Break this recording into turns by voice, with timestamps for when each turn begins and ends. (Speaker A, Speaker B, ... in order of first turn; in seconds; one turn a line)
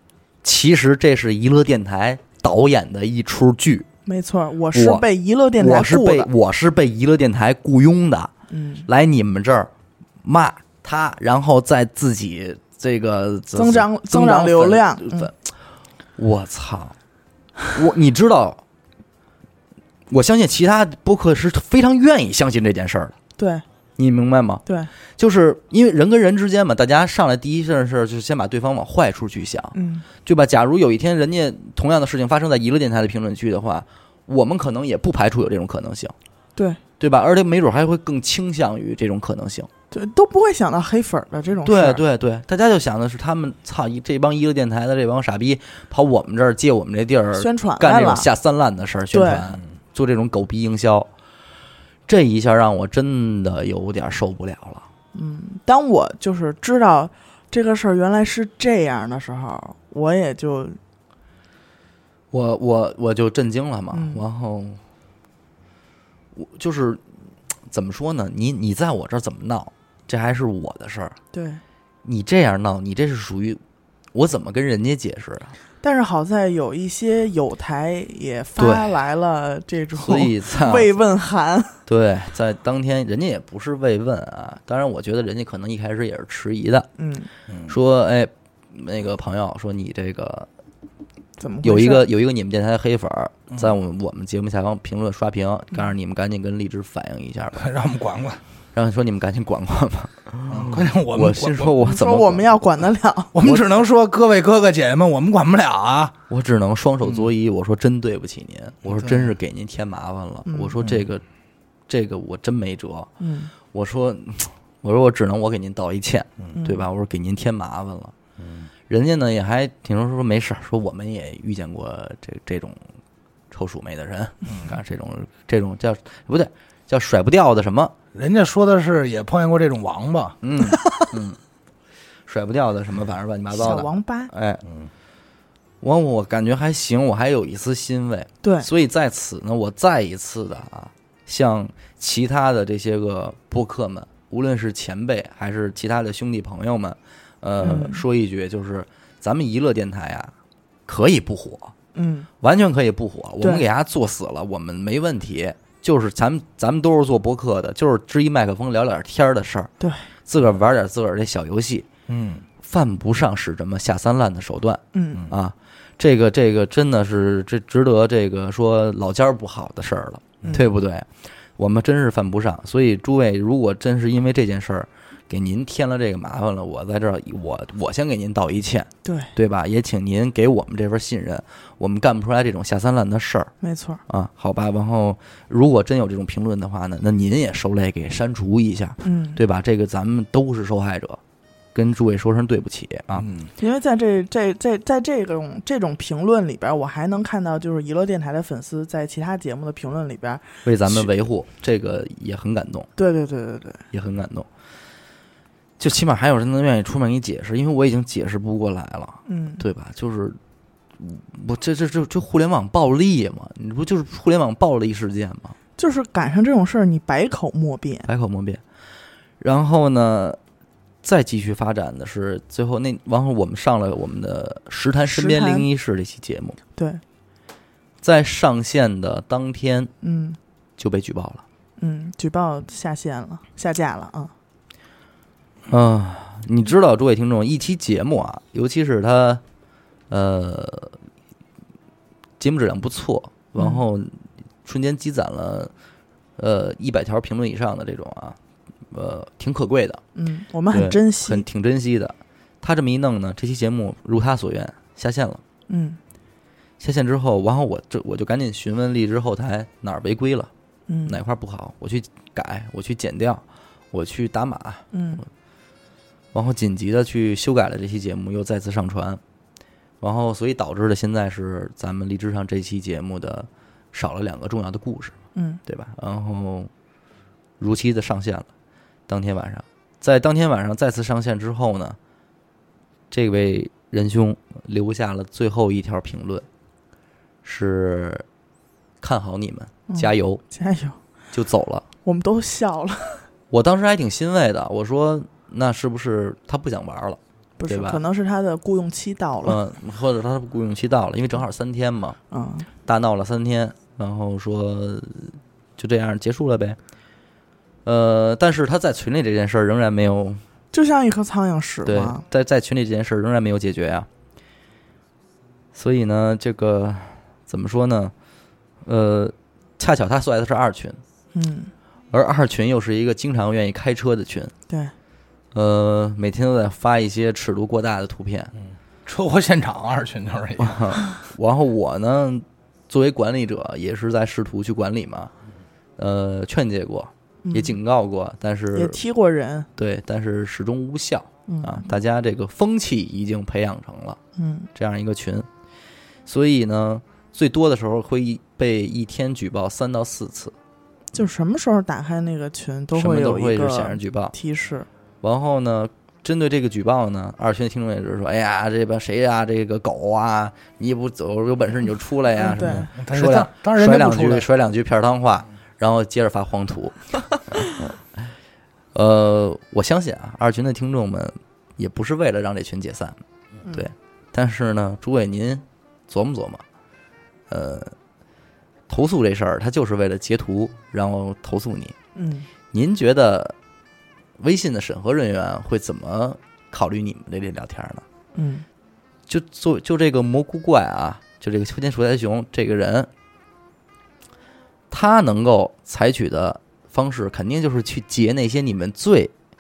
Speaker A: 0.4-3.9
Speaker B: 4.1-6.3
Speaker A: 4.7-5.0
Speaker A: 5.6-8.3
Speaker B: 8.5-8.9
Speaker A: 8.9-9.7
Speaker A: 10.2-15.3
Speaker B: 13.6-15.3
Speaker A: 16.2-17.0
Speaker A: 17.7-18.6
Speaker A: 20.1-23.2
Speaker B: 23.4-23.6
Speaker A: 24.0-24.6
Speaker A: 25.2-36.1
Speaker B: 29.8-30.1
Speaker A: 37.0-39.7
Speaker B: 39.9-42.0
Speaker A: 41.6-51.1
Speaker B: 47.4-48.3
Speaker B: 49.1-49.5
Speaker A: 52.1-54.9
Speaker B: 55.1-60.8
Speaker A: 62.3-64.8
Speaker B: 63.9-64.2
Speaker A: 66.4-67.0
Speaker A: 67.7-71.2
Speaker B: 71.3-71.6
Speaker A: 72.0-73.6
Speaker A: 74.1-75.5
Speaker B: 75.8-81.8
Speaker A: 78.6-79.0
Speaker A: 80.0-80.9
Speaker A: 81.9-86.9
Speaker B: 87.0-87.3
Speaker C: 87.5-87.7
Speaker A: 87.7-90.5
Speaker B: 91.4-92.1
Speaker A: 91.6-97.6
Speaker C: 97.5-98.4
Speaker A: 98.7-102.5
Speaker C: 100.5-101.8
Speaker B: 101.8-103.6
Speaker C: 103.3-106.2
Speaker A: 106.3-111.2
Speaker C: 108.9-109.3
Speaker B: 110.5-110.8
Speaker A: 111.9-113.1
Speaker B: 113.2-113.5
Speaker A: 113.7-118.1
Speaker B: 116.6-116.8
Speaker C: 118.4-118.7
Speaker A: 118.9-122.8
Speaker A: 123.5-128.0
Speaker C: 128.1-130.4
Speaker A: 130.4-131.4
Speaker B: 130.7-131.0
Speaker A: 132.3-134.6
Speaker B: 133.5-134.3
Speaker A: 135.8-150.3
Speaker B: 138.4-138.7
Speaker B: 147.6-148.0
Speaker A: 150.9-151.7
Speaker B: 151.9-152.3
Speaker A: 152.4-159.7
Speaker A: 160.3-161.9
Speaker C: 162.1-162.4
Speaker A: 162.6-183.5
Speaker B: 164.9-165.3
Speaker B: 170.4-170.7
Speaker B: 179.0-179.3
Speaker B: 183.6-184.0
Speaker A: 184.1-191.2
Speaker B: 189.0-189.4
Speaker A: 191.7-193.3
Speaker C: 193.2-193.5
Speaker B: 193.6-200.5
Speaker A: 200.6-202.9
Speaker B: 203.0-203.8
Speaker A: 203.9-204.5
Speaker A: 205.8-210.4
Speaker B: 209.3-209.6
Speaker A: 211.0-215.6
Speaker B: 215.8-218.1
Speaker A: 218.1-218.6
Speaker A: 219.4-220.4
Speaker A: 221.0-226.6
Speaker B: 225.1-225.7
Speaker B: 226.8-227.0
Speaker A: 228.0-229.9
Speaker B: 230.0-230.4
Speaker A: 230.8-231.4
Speaker B: 231.8-234.3
Speaker A: 235.7-239.4
Speaker A: 240.1-240.9
Speaker A: 242.4-245.7
Speaker B: 243.6-243.8
Speaker A: 246.4-248.4
Speaker A: 248.9-250.0
Speaker B: 250.2-251.4
Speaker A: 250.7-255.4
Speaker B: 255.7-256.0
Speaker A: 256.8-260.5
Speaker B: 260.9-261.2
Speaker A: 261.1-264.9
Speaker B: 264.9-265.2
Speaker A: 266.3-269.2
Speaker A: 270.0-276.7
Speaker B: 275.4-275.6
Speaker A: 277.6-278.5
Speaker A: 279.1-282.0
Speaker A: 283.1-286.5
Speaker A: 287.4-288.2
Speaker A: 289.0-290.4
Speaker B: 289.9-291.0
Speaker A: 291.3-291.9
Speaker B: 292.1-293.3
Speaker A: 293.5-298.0
Speaker B: 297.6-299.6
Speaker A: 299.4-302.2
Speaker B: 302.3-302.7
Speaker A: 302.9-306.8
Speaker A: 307.9-310.4
Speaker B: 310.7-312.2
Speaker A: 311.8-314.1
Speaker A: 315.8-318.1
Speaker A: 318.9-321.0
Speaker B: 321.3-321.7
Speaker A: 322.1-324.5
Speaker A: 325.5-328.5
Speaker C: 329.1-331.0
Speaker A: 330.6-335.3
Speaker A: 336.0-339.0
Speaker B: 337.4-337.8
Speaker B: 338.7-339.7
Speaker A: 339.8-344.2
Speaker B: 341.5-341.9
Speaker B: 344.4-344.7
Speaker A: 344.8-345.5
Speaker A: 346.3-350.5
Speaker B: 351.1-354.9
Speaker A: 352.9-354.3
Speaker A: 355.2-367.9
Speaker B: 362.4-362.9
Speaker C: 362.7-364.5
Speaker A: 368.9-373.2
Speaker A: 373.7-376.6
Speaker A: 377.5-377.9
Speaker A: 378.9-381.9
Speaker B: 382.1-382.5
Speaker A: 382.7-383.6
Speaker A: 384.4-388.1
Speaker B: 388.4-388.6
Speaker A: 389.3-393.1
Speaker A: 394.9-399.3